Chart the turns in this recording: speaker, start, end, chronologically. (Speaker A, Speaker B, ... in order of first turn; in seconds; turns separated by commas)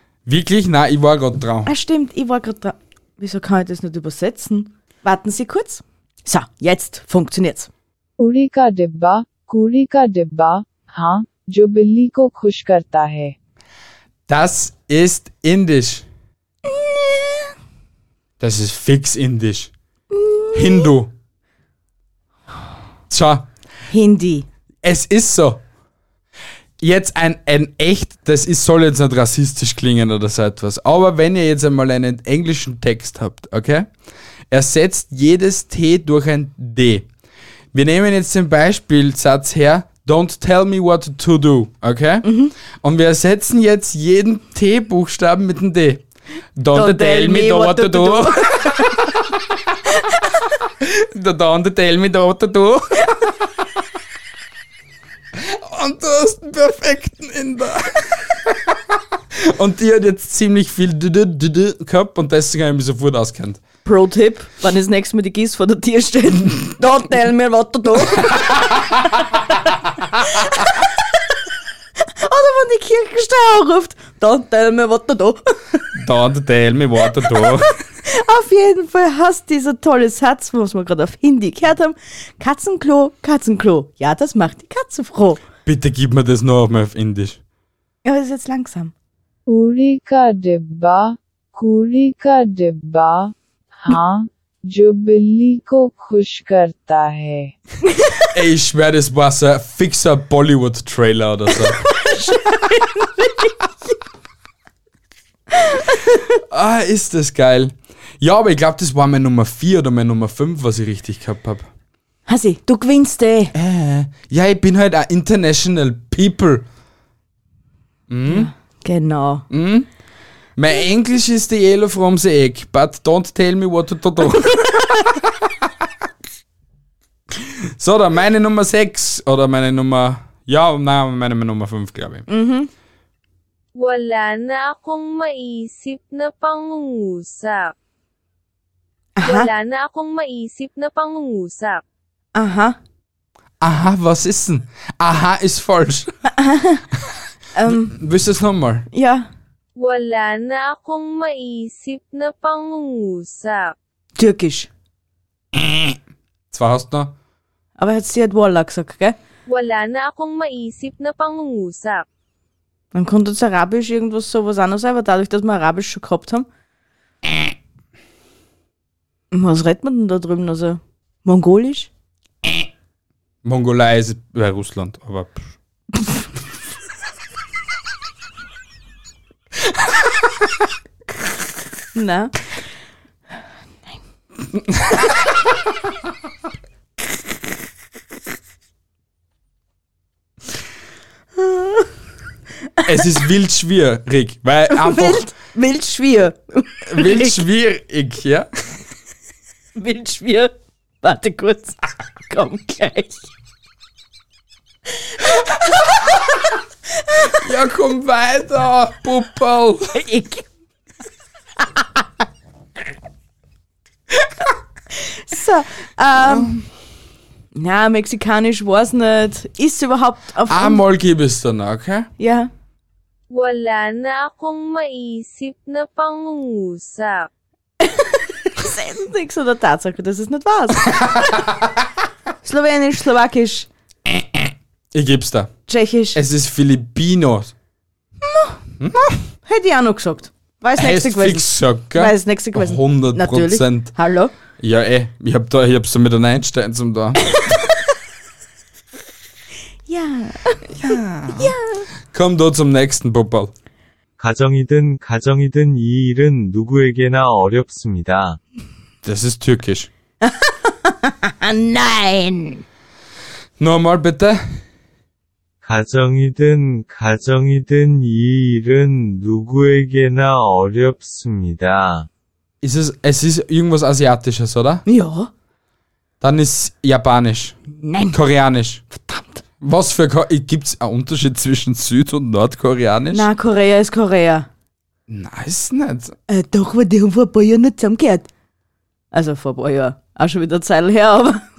Speaker A: 0.3-1.7, Speaker B: 1.7-7.7, Speaker C: 8.2-13.3, Speaker A: 14.3-16.1, Speaker B: 16.7-17.5, Speaker A: 18.4-19.7, Speaker B: 20.1-20.9, Speaker A: 20.5-21.1, Speaker A: 23.1-23.5, Speaker B: 23.9-24.5, Speaker A: 24.8-25.6, Speaker A: 26.8-33.9, Speaker A: 34.5-37.1, Speaker A: 37.7-46.0, Speaker B: 42.2-42.5, Speaker A: 46.6-49.0, Speaker B: 46.7-49.0, Speaker A: 50.8-53.1, Speaker A: 55.4-63.6, Speaker B: 63.9-69.2, Speaker B: 70.2-70.9, Speaker B: 72.0-75.8, Speaker A: 75.9-77.7, Speaker B: 77.2-85.4, Speaker A: 85.7-87.4, Speaker B: 88.0-88.9, Speaker C: 89.5-97.6, Speaker B: 97.9-98.2, Speaker A: 98.3-101.8, Speaker B: 101.8-103.5, Speaker B: 105.5-106.3, Speaker A: 106.5-111.7, Speaker B: 112.3-113.5, Speaker A: 113.5-116.7, Speaker A: 118.1-118.5, Speaker B: 118.3-119.5, Speaker A: 119.5-119.9, Speaker A: 120.6-125.5, Speaker A: 127.4-132.3, Speaker B: 132.3-132.7, Speaker D: 133.8-137.7, Speaker B: 139.2-139.5, Speaker D: 139.2-141.8, Speaker B: 142.3-142.8, Speaker A: 143.6-146.2, Speaker B: 146.3-146.8, Speaker B: 147.6-148.0, Speaker A: 147.7-148.9, Speaker B: 148.9-149.3, Speaker D: 149.8-153.8, Speaker B: 154.2-154.7, Speaker A: 155.6-156.0, Speaker A: 156.5-157.2, Speaker B: 157.8-159.2, Speaker D: 159.5-162.1, Speaker B: 162.9-166.5, Speaker B: 169.3-171.9, Speaker A: 173.4-175.5, Speaker B: 181.9-182.4, Speaker A: 184.6-185.1, Speaker B: 191.4-191.9, Speaker A: 192.8-195.3, Speaker B: 194.7-197.4, Speaker A: 196.9-198.5, Speaker B: 199.8-203.3, Speaker B: 207.1-207.4, Speaker A: 207.4-210.0, Speaker B: 209.9-210.4, Speaker B: 214.9-216.6, Speaker A: 216.2-216.6, Speaker B: 217.6-220.8, Speaker A: 220.5-222.1, Speaker B: 222.2-222.5, Speaker D: 223.3-227.3, Speaker B: 227.8-231.1, Speaker B: 232.4-233.7, Speaker A: 234.1-235.5, Speaker B: 235.7-236.2, Speaker A: 236.1-237.5, Speaker B: 238.2-238.6, Speaker A: 238.8-239.2, Speaker B: 239.5-244.3, Speaker A: 240.8-243.9, Speaker A: 244.6-247.3, Speaker B: 249.9-250.7, Speaker A: 250.7-251.6, Speaker B: 251.3-251.9, Speaker A: 252.1-253.5, Speaker E: 254.2-258.4, Speaker A: 259.0-259.9, Speaker B: 260.2-262.6, Speaker A: 263.6-264.4, Speaker E: 265.6-272.1, Speaker A: 272.6-274.8, Speaker B: 274.9-275.3, Speaker A: 276.2-277.6, Speaker B: 277.8-278.2, Speaker A: 278.1-278.8, Speaker B: 278.9-279.4, Speaker A: 279.6-283.3, Speaker B: 283.1-284.5, Speaker A: 285.1-286.2, Speaker B: 286.3-288.3, Speaker B: 289.1-291.4